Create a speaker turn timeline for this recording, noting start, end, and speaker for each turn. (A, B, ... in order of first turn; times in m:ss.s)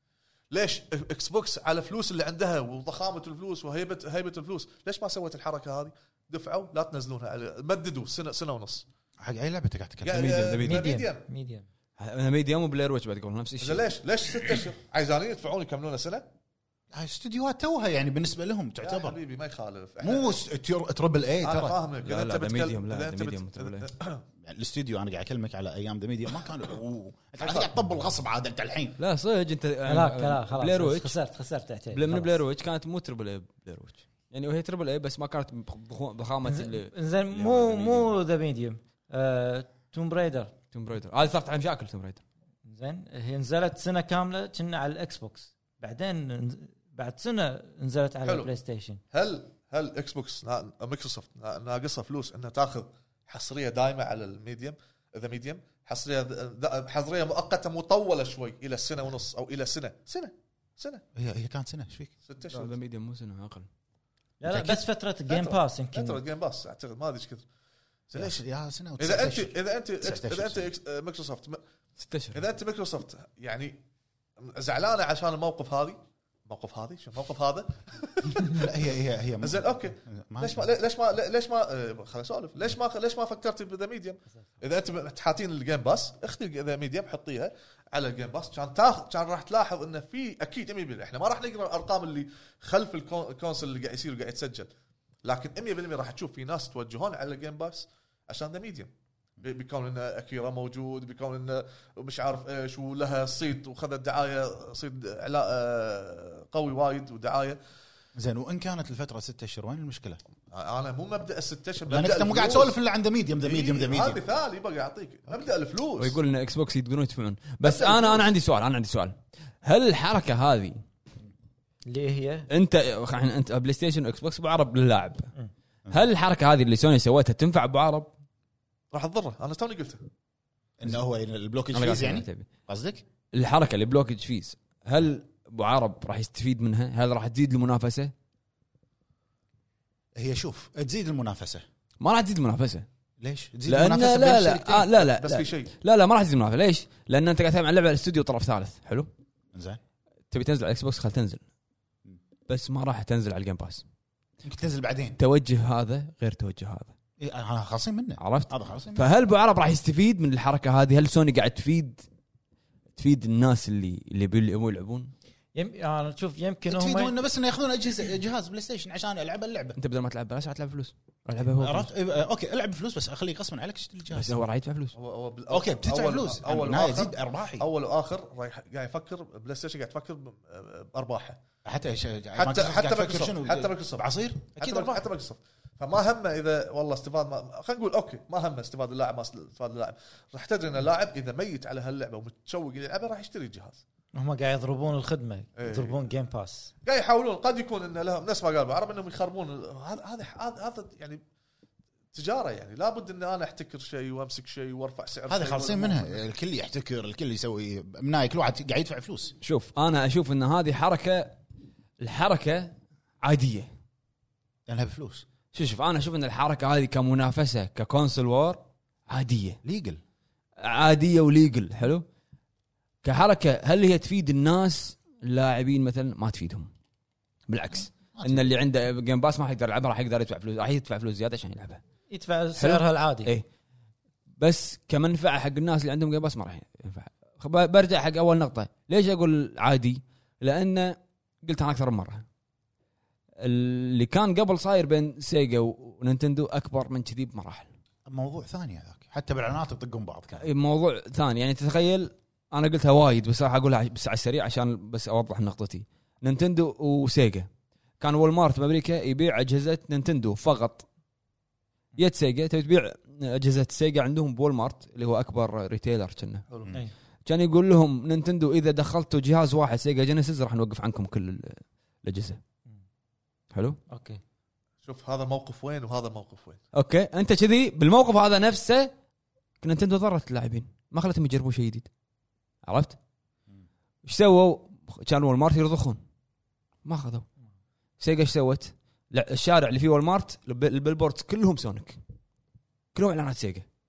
0:00.5-0:08.8 A
0:09.2-0:10.3 B
0:10.0-0:11.2 A
0:10.1-0:10.8 C
0:10.6-0:11.6 D
0:12.0-0:13.9 C
0:13.6-0:16.2 A
0:16.9-0:19.2 B
0:18.8-0:20.4 A
0:20.0-0:21.8 B
0:21.4-0:24.2 A
0:22.0-0:23.9 C
0:24.4-0:29.0 B
0:29.0-0:31.1 C
0:29.9-0:32.4 D
0:31.9-0:38.1 C
0:36.4-0:40.5 D
0:40.7-0:42.2 C
0:42.6-0:49.0 D
0:48.2-0:48.5 A
0:49.1-1:01.0 A
1:01.1-1:02.1 B
1:02.2-1:02.7 A
1:02.4-1:03.7 C
1:04.4-1:06.2 D
1:04.5-1:04.8 C
1:05.3-1:07.4 A
1:08.1-1:08.4 A
1:08.1-1:10.7 B
1:09.0-1:11.6 A
1:12.0-1:12.4 C
1:12.3-1:13.8 A
1:14.4-1:18.7 A
1:18.5-1:20.6 B
1:19.4-1:34.7 A
1:35.2-1:47.6 A
1:48.2-1:50.2 B
1:50.5-1:52.8 A
1:51.9-1:54.2 B
1:53.4-1:56.2 A
1:56.0-2:00.8 C
1:57.6-1:58.3 A
2:01.9-2:02.5 D
2:02.5-2:05.3 C
2:05.9-2:08.1 C
2:08.9-2:10.0 A
2:10.8-2:13.0 B
2:11.7-2:12.5 C
2:13.3-2:18.1 C
2:20.2-2:21.6 B
2:22.0-2:22.8 C
2:23.2-2:24.9 B
2:23.7-2:29.1 C
2:25.0-2:25.7 A
2:29.5-2:29.8 B
2:30.3-2:31.4 C
2:32.5-2:33.8 C
2:34.4-2:35.2 B
2:35.2-2:36.9 C
2:37.2-2:39.1 B
2:38.2-2:42.0 C
2:43.0-2:45.1 C
2:45.5-2:47.1 D
2:46.7-2:49.8 B
2:49.7-2:51.9 C
2:51.5-2:54.3 B
2:54.1-2:54.9 C
2:54.9-3:01.4 A
2:55.5-2:57.7 B
3:01.6-3:05.0 B
3:02.3-3:04.0 A
3:04.6-3:13.8 A
3:14.1-3:16.7 D
3:15.6-3:16.0 A
3:16.8-3:21.2 A
3:22.1-3:26.1 A
3:25.3-3:29.3 B
3:29.4-3:31.4 C
3:32.0-3:33.7 C
3:34.7-3:35.2 B
3:35.5-3:39.6 C
3:39.6-3:40.0 B
3:40.6-3:42.0 C
3:43.0-3:46.7 C
3:47.5-3:51.8 C
3:48.1-3:48.5 B
3:52.1-3:53.3 D
3:52.6-3:53.4 C
3:54.4-4:02.2 C
4:03.4-4:07.7 C
4:08.1-4:10.4 B
4:10.4-4:17.5 C
4:18.0-4:20.8 C
4:22.0-4:26.4 C
4:26.5-4:26.8 A
4:27.2-4:32.4 C
4:33.5-4:33.8 C
4:33.9-4:34.2 D
4:34.8-4:36.6 A
4:36.7-4:38.9 C
4:39.6-4:41.9 C
4:42.6-4:43.0 C
4:44.0-4:46.0 C
4:46.8-4:47.2 C
4:48.0-4:52.0 C
4:52.9-4:53.6 C